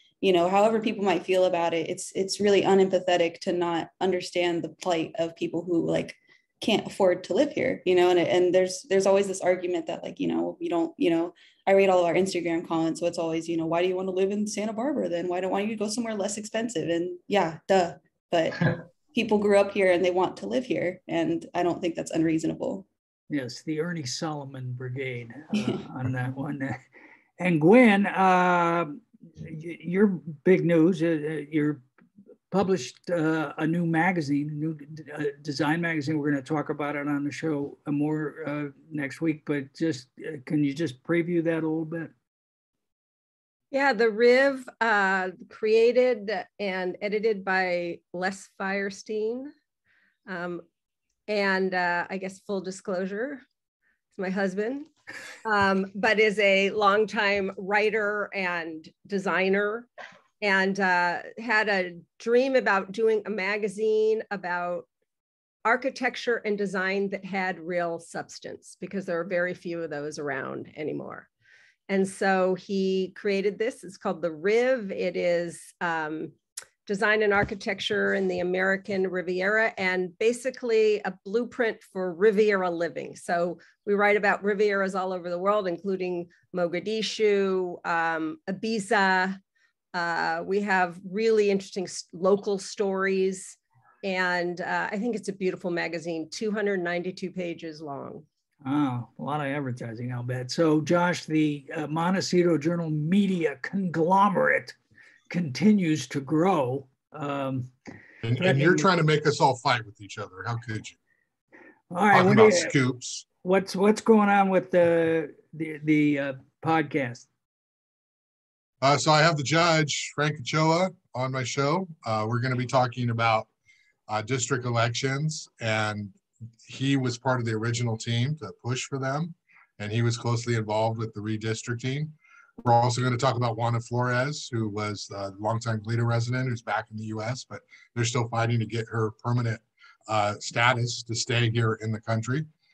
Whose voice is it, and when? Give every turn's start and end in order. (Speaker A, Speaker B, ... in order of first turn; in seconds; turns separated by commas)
Speaker A: 0.2-22.9, Speaker B: 23.3-26.8, Speaker B: 27.4-31.8, Speaker B: 32.5-42.1, Speaker C: 43.7-49.5, Speaker C: 50.3-50.6, Speaker C: 51.3-53.4, Speaker C: 54.1-54.9, Speaker C: 55.4-59.9, Speaker C: 60.4-64.9, Speaker C: 65.6-71.3, Speaker C: 71.9-76.3, Speaker C: 76.8-89.4, Speaker C: 89.9-98.2, Speaker B: 98.6-104.8, Speaker B: 105.3-107.7, Speaker D: 108.2-111.0, Speaker B: 108.4-108.9, Speaker B: 111.9-112.7, Speaker D: 112.1-113.2, Speaker B: 113.4-117.3, Speaker D: 118.8-123.5, Speaker D: 124.1-142.5